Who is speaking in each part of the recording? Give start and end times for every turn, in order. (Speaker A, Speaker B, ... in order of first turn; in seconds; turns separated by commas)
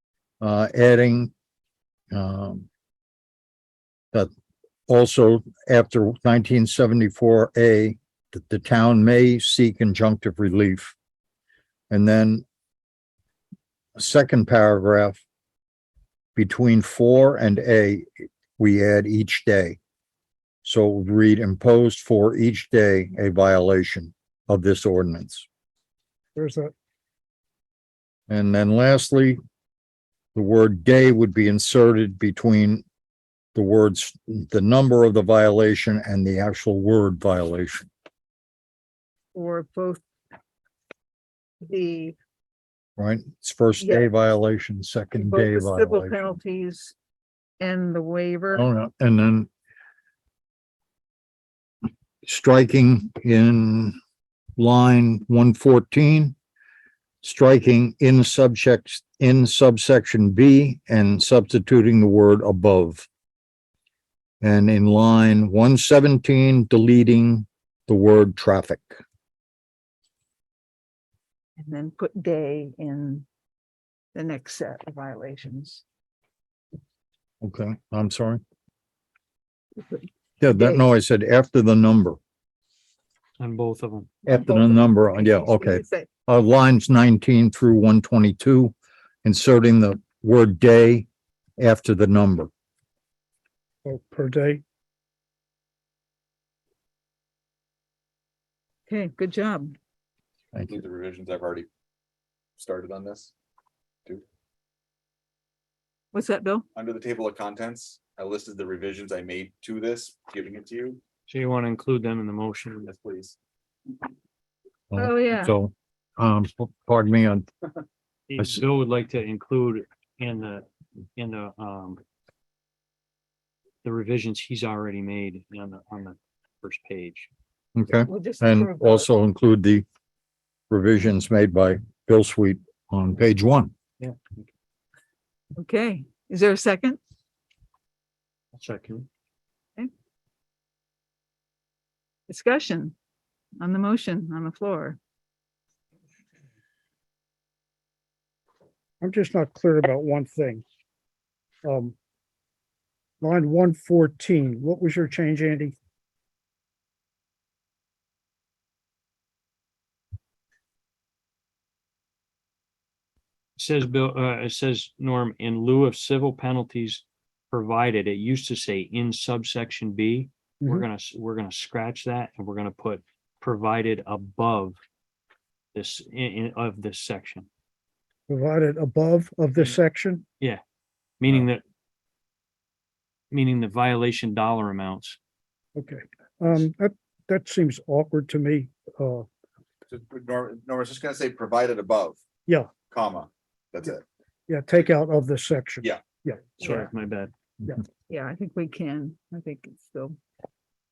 Speaker A: 0.4-1.3, Speaker A: 2.1-2.7, Speaker A: 4.9-10.9, Speaker A: 11.9-12.4, Speaker A: 14.0-15.2, Speaker A: 16.4-19.8, Speaker A: 20.6-25.4, Speaker B: 26.4-26.7, Speaker A: 28.3-29.4, Speaker A: 30.3-32.8, Speaker A: 33.5-37.9, Speaker C: 39.3-40.0, Speaker C: 41.6-42.1, Speaker A: 43.0-46.4, Speaker C: 43.8-44.1, Speaker C: 45.1-46.9, Speaker C: 47.6-48.7, Speaker A: 48.5-49.5, Speaker A: 52.2-54.0, Speaker A: 54.6-56.3, Speaker A: 57.2-63.0, Speaker A: 64.4-68.9, Speaker C: 71.6-73.2, Speaker C: 74.1-75.8, Speaker A: 77.4-78.4, Speaker A: 80.4-82.2, Speaker C: 80.5-80.8, Speaker D: 83.4-84.1, Speaker A: 84.2-91.0, Speaker C: 84.3-86.1, Speaker A: 91.6-92.5, Speaker B: 93.8-94.6, Speaker C: 98.9-99.8, Speaker E: 100.7-101.7, Speaker E: 102.6-103.3, Speaker C: 106.1-106.6, Speaker E: 106.7-111.0, Speaker D: 111.3-112.9, Speaker E: 112.8-113.3, Speaker A: 114.9-117.5, Speaker C: 115.0-115.5, Speaker D: 118.3-122.0, Speaker D: 123.8-127.3, Speaker A: 127.8-129.8, Speaker C: 128.1-129.1, Speaker A: 130.7-133.7, Speaker D: 134.0-134.4, Speaker C: 135.6-137.0, Speaker D: 138.5-139.1, Speaker C: 142.3-142.9, Speaker C: 143.6-145.0, Speaker B: 149.0-150.6, Speaker B: 151.6-151.9, Speaker B: 153.2-155.7, Speaker D: 163.6-174.8, Speaker B: 170.6-170.8, Speaker D: 175.7-177.5, Speaker B: 178.3-180.2, Speaker D: 181.2-181.6, Speaker D: 183.3-185.2, Speaker B: 185.8-189.2, Speaker E: 189.9-192.2, Speaker B: 192.5-192.8, Speaker E: 192.8-194.0, Speaker B: 194.5-196.8, Speaker D: 196.6-197.3, Speaker C: 198.1-200.2